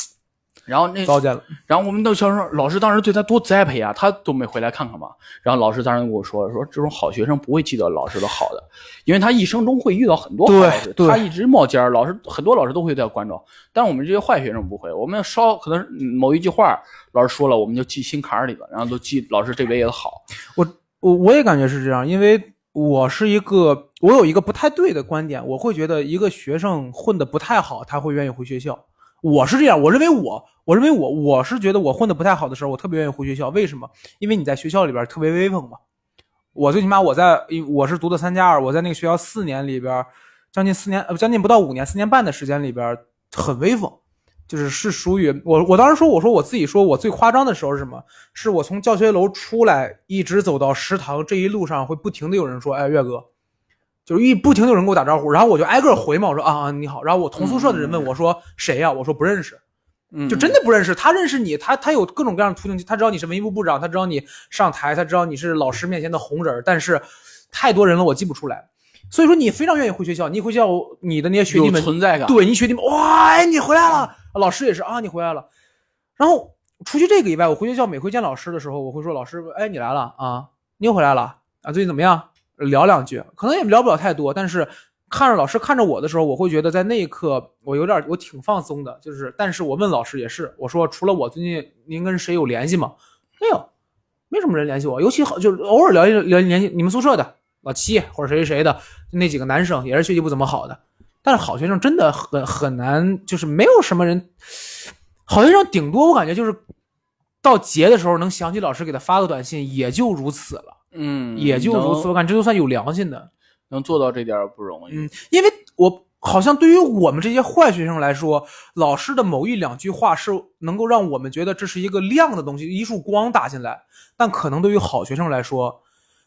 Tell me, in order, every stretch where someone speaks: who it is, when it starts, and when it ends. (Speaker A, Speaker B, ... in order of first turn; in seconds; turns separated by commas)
Speaker A: 0.7-20.2, Speaker B: 1.1-1.5, Speaker B: 10.4-11.3, Speaker B: 20.6-35.8, Speaker B: 36.5-44.0, Speaker B: 44.5-53.2, Speaker B: 54.0-59.6, Speaker A: 57.4-58.1, Speaker A: 60.1-60.6, Speaker B: 60.3-75.5, Speaker A: 71.5-72.4, Speaker B: 76.2-93.7, Speaker B: 94.3-106.6, Speaker B: 107.4-110.8, Speaker A: 110.9-112.1, Speaker B: 111.4-113.3, Speaker A: 113.7-115.1, Speaker B: 114.9-125.8